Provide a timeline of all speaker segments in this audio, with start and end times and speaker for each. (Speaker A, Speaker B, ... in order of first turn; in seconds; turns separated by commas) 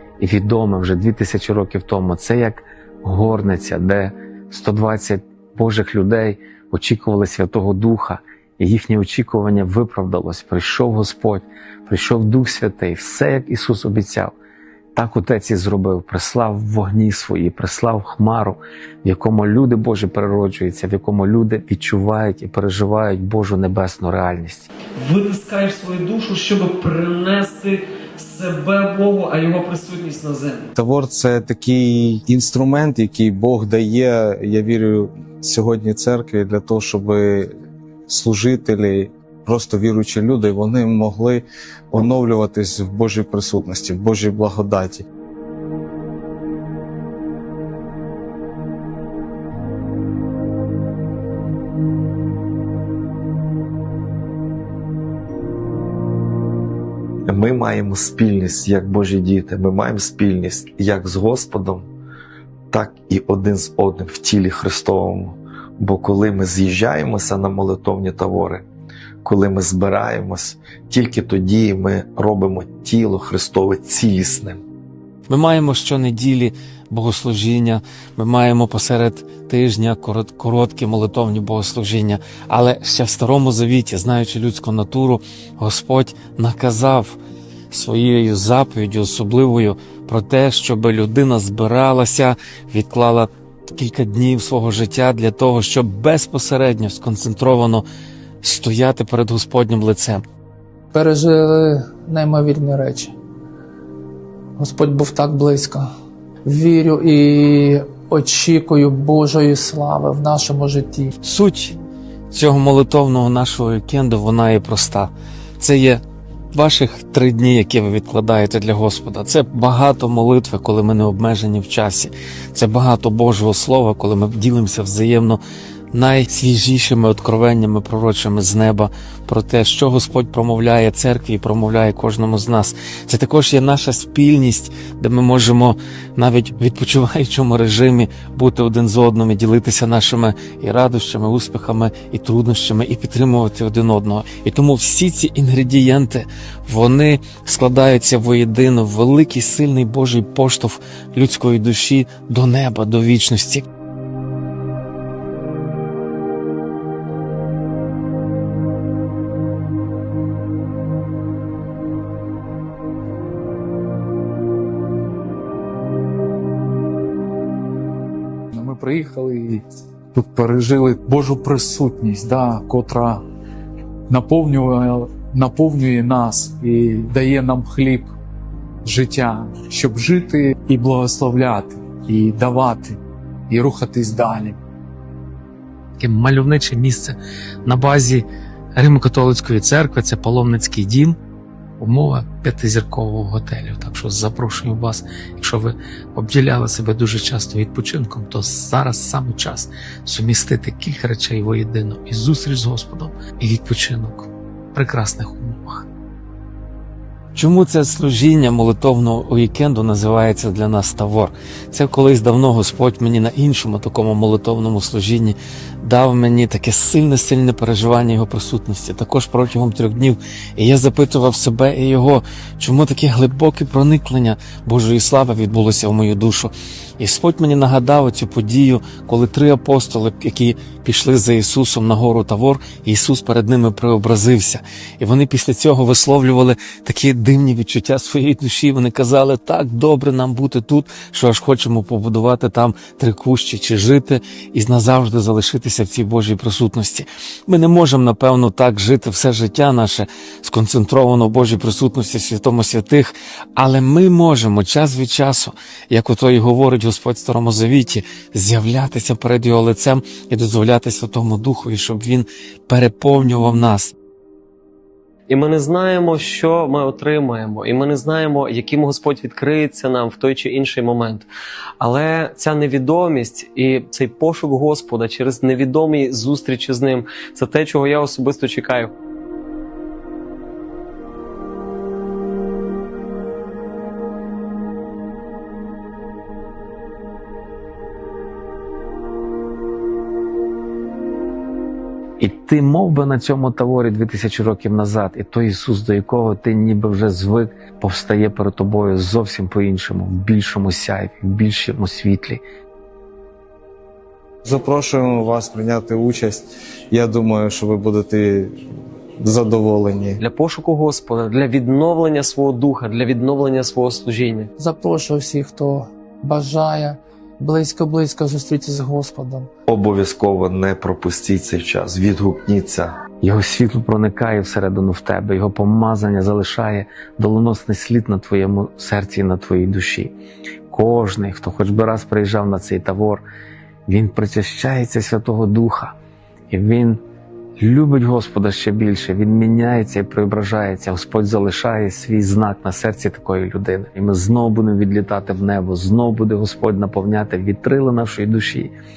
Speaker A: 0.2-14.3, Speaker A: 14.9-24.7, Speaker B: 24.9-30.7, Speaker C: 30.8-37.5, Speaker C: 38.1-45.0, Speaker D: 57.3-61.9, Speaker D: 62.7-68.6, Speaker D: 69.2-74.6, Speaker A: 75.3-87.2, Speaker A: 87.7-97.8, Speaker A: 98.4-100.2, Speaker E: 100.9-103.1, Speaker E: 104.6-105.9, Speaker E: 106.4-111.1, Speaker A: 111.2-111.8, Speaker A: 112.3-116.0, Speaker A: 116.5-125.4, Speaker A: 125.9-153.7, Speaker F: 168.5-169.6, Speaker F: 170.1-173.2, Speaker F: 174.1-178.1, Speaker F: 178.8-183.0, Speaker F: 183.5-184.6, Speaker A: 186.0-188.2, Speaker A: 188.8-191.2, Speaker A: 191.8-205.8, Speaker A: 207.3-263.9, Speaker B: 265.3-271.3, Speaker B: 271.8-278.9, Speaker A: 292.2-302.4, Speaker C: 304.4-308.5, Speaker C: 309.2-310.2, Speaker B: 310.2-314.5, Speaker E: 314.6-319.5, Speaker D: 319.7-322.9, Speaker A: 323.2-330.1, Speaker A: 330.7-333.2, Speaker A: 333.9-335.9, Speaker A: 336.5-337.0, Speaker A: 337.6-348.7